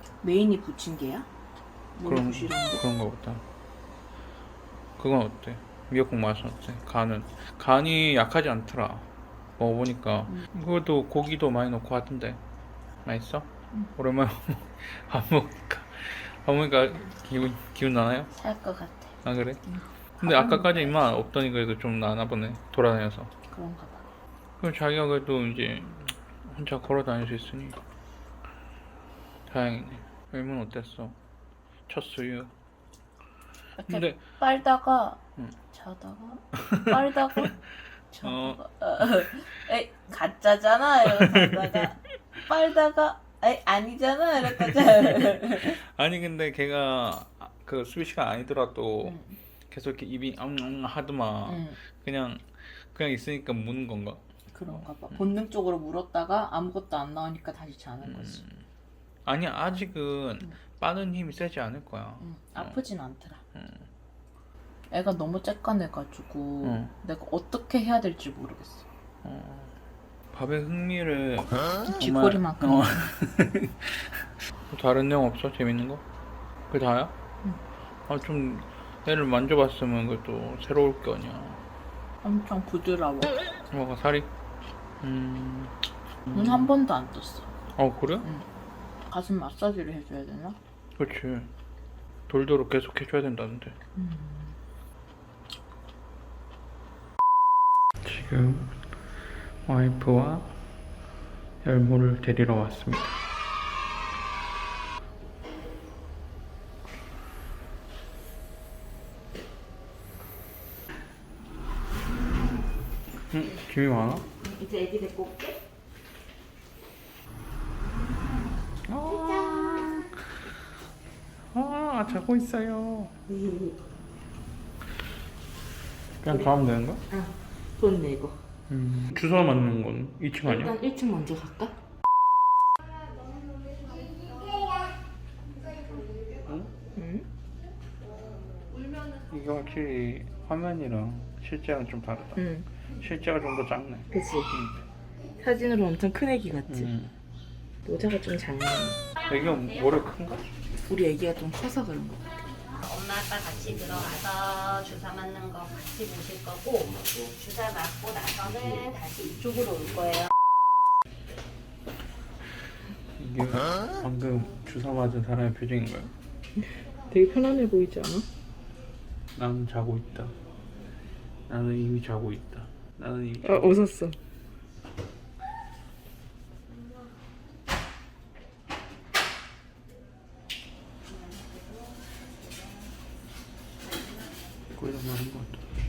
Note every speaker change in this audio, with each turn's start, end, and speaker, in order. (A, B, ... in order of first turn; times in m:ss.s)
0:00.2-0:01.3 A
0:02.0-0:02.8 A
0:02.0-0:03.4 B
0:05.0-0:09.1 B
0:09.6-0:12.4 B
0:13.0-0:18.3 B
0:18.3-0:21.0 A
0:19.2-0:19.6 B
0:20.2-0:23.3 B
0:23.5-0:24.1 A
0:24.6-0:27.8 B
0:29.5-0:31.2 B
0:31.9-0:32.5 B
0:33.8-0:35.2 A
0:33.9-0:34.2 B
0:35.7-0:37.5 A
0:36.6-0:37.5 B
0:38.1-0:45.8 A
0:38.2-0:38.6 B
0:41.0-0:41.9 B
0:44.7-0:49.2 B
0:49.0-0:49.4 A
0:49.7-0:54.8 B
0:51.5-0:51.8 A
0:54.5-0:58.4 A
0:58.0-0:58.6 B
0:59.3-1:02.8 B
1:02.2-1:03.4 A
1:03.6-1:03.9 B
1:04.9-1:08.9 A
1:06.6-1:06.9 B
1:09.2-1:09.7 B
1:10.3-1:14.1 B
1:11.8-1:13.1 A
1:14.7-1:16.0 B
1:16.7-1:17.1 B
1:18.1-1:21.6 B
1:22.2-1:23.4 A
1:23.7-1:24.3 B
1:25.0-1:25.8 B
1:26.3-1:27.5 A
1:27.8-1:28.3 B
1:29.1-1:30.6 A
1:31.0-1:31.5 B
1:32.3-1:33.8 B
1:34.0-1:34.5 A
1:38.0-1:38.8 B
1:39.7-1:40.6 B
1:41.6-1:43.1 B
1:53.3-1:54.3 B
1:54.4-1:55.6 A
1:58.9-2:00.1 B
2:01.5-2:03.2 B
2:03.3-2:03.8 A
2:06.2-2:07.0 B
2:07.1-2:08.4 A
2:08.7-2:10.8 B
2:10.4-2:11.8 A
2:16.5-2:16.7 B
2:17.0-2:17.3 A
2:19.3-2:24.8 B
2:22.4-2:22.7 A
2:24.1-2:24.5 A
2:25.4-2:26.9 A
2:26.7-2:27.1 B
2:27.8-2:29.0 A
2:29.3-2:30.5 B
2:30.9-2:32.3 A
2:32.8-2:40.3 C
2:43.2-2:46.1 B
2:47.1-2:48.3 A
2:49.4-2:50.3 B
2:51.5-2:53.8 B
2:53.4-2:54.2 A
3:04.8-3:05.6 B